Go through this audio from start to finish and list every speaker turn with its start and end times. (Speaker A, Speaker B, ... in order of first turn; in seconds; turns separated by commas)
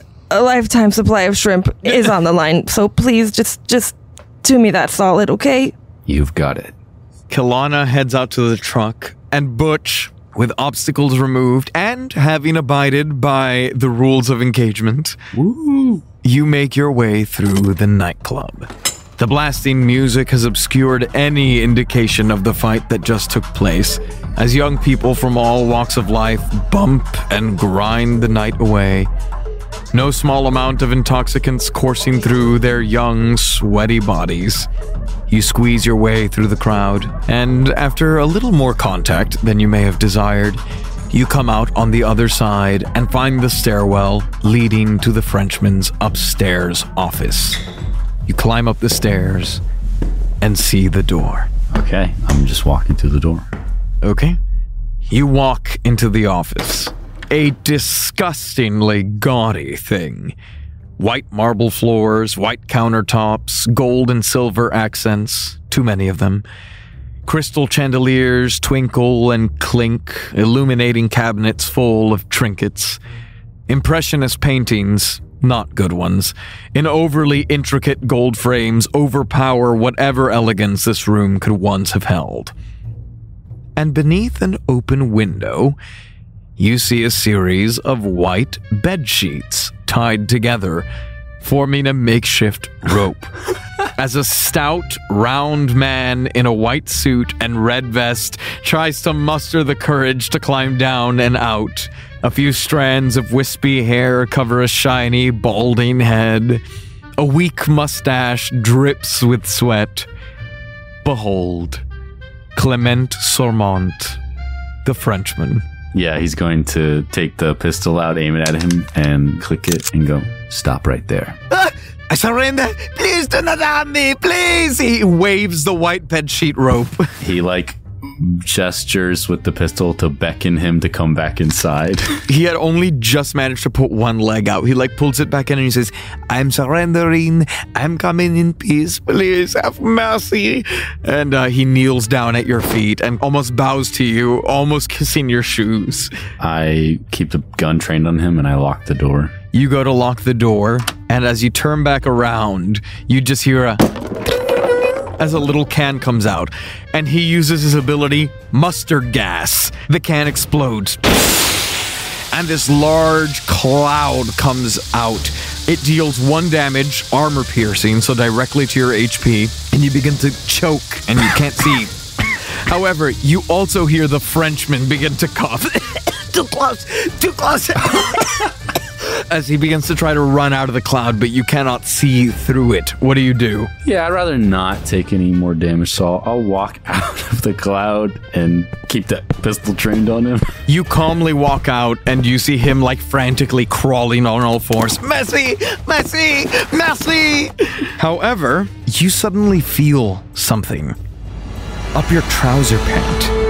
Speaker A: 0.3-5.7, Speaker B: 6.0-6.7, Speaker C: 7.3-15.2, Speaker B: 15.3-16.0, Speaker C: 16.2-29.1, Speaker C: 29.9-34.7, Speaker C: 35.3-47.6, Speaker C: 48.3-49.6, Speaker C: 50.4-51.5, Speaker B: 51.7-53.5, Speaker C: 54.0-54.4, Speaker C: 55.1-60.3, Speaker C: 61.0-66.4, Speaker C: 67.2-73.0, Speaker C: 73.7-82.5, Speaker C: 83.8-85.8, Speaker C: 86.6-90.8, Speaker C: 91.4-93.3, Speaker C: 93.9-106.6, Speaker C: 107.2-110.1, Speaker C: 111.0-111.8, Speaker C: 112.5-114.2, Speaker C: 114.8-115.6, Speaker B: 115.9-121.4, Speaker C: 121.5-127.1, Speaker B: 127.2-132.2, Speaker C: 132.3-146.1, Speaker B: 146.4-149.3, Speaker C: 149.5-153.8, Speaker C: 155.2-161.7, Speaker C: 162.3-183.7, Speaker B: 183.8-190.6, Speaker C: 190.7-200.9, Speaker C: 201.9-203.3